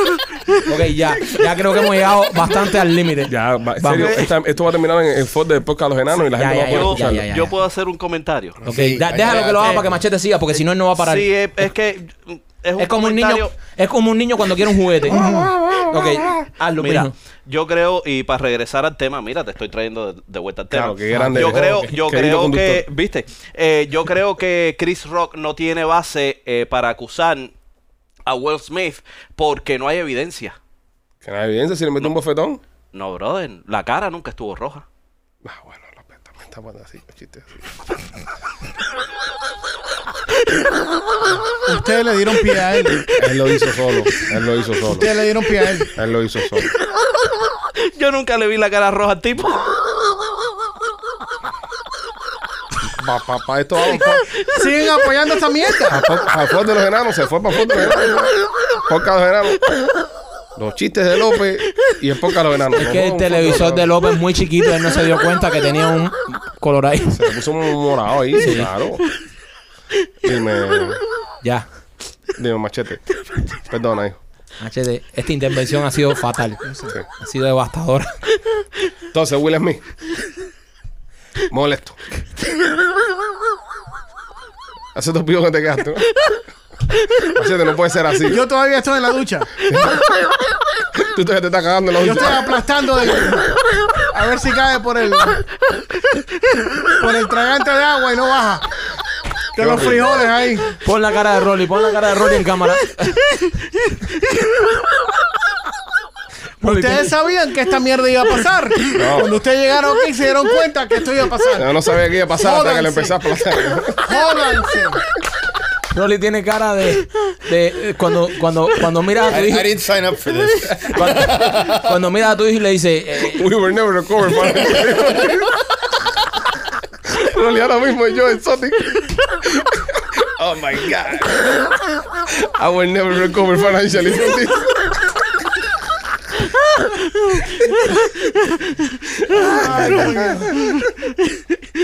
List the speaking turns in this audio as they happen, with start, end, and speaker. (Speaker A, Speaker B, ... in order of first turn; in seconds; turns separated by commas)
Speaker A: 0.7-4.3, Speaker B: 3.3-7.3, Speaker C: 4.0-4.2, Speaker A: 6.2-7.5, Speaker C: 6.5-8.6, Speaker D: 8.6-10.0, Speaker A: 8.7-11.3, Speaker C: 10.5-13.5, Speaker A: 12.8-15.3, Speaker E: 15.1-15.5, Speaker B: 15.1-16.1, Speaker A: 15.8-17.1, Speaker C: 16.8-27.5, Speaker B: 20.7-22.9, Speaker A: 21.1-21.9, Speaker C: 28.2-30.6, Speaker B: 31.2-32.6, Speaker C: 32.9-34.8, Speaker B: 35.4-37.6, Speaker E: 41.6-43.1, Speaker B: 43.1-45.1, Speaker E: 44.8-45.9, Speaker B: 45.9-46.7, Speaker C: 47.8-49.8, Speaker B: 52.9-54.2, Speaker E: 54.5-56.0, Speaker B: 55.9-59.6, Speaker B: 60.5-63.9, Speaker A: 62.7-67.2, Speaker B: 67.1-69.0, Speaker A: 68.4-68.7, Speaker B: 70.2-71.0, Speaker B: 72.3-73.0, Speaker B: 73.6-74.2, Speaker A: 74.6-76.6, Speaker E: 76.7-76.9, Speaker A: 77.2-78.2, Speaker B: 79.1-79.8, Speaker B: 81.5-82.0, Speaker B: 84.9-86.2, Speaker B: 87.2-88.4, Speaker E: 88.2-89.5, Speaker B: 89.6-90.0, Speaker B: 91.0-92.5, Speaker E: 92.0-93.4, Speaker E: 94.1-95.5, Speaker E: 96.8-98.7, Speaker E: 99.5-100.8, Speaker B: 99.6-100.1, Speaker A: 100.8-103.2, Speaker A: 106.6-107.1, Speaker E: 106.6-113.2, Speaker B: 108.9-109.4, Speaker B: 111.5-114.2, Speaker E: 114.0-115.0, Speaker A: 115.9-119.7, Speaker D: 119.3-121.8, Speaker A: 120.9-123.4, Speaker B: 123.2-125.5, Speaker B: 127.1-135.1, Speaker B: 139.2-140.9, Speaker E: 139.4-140.6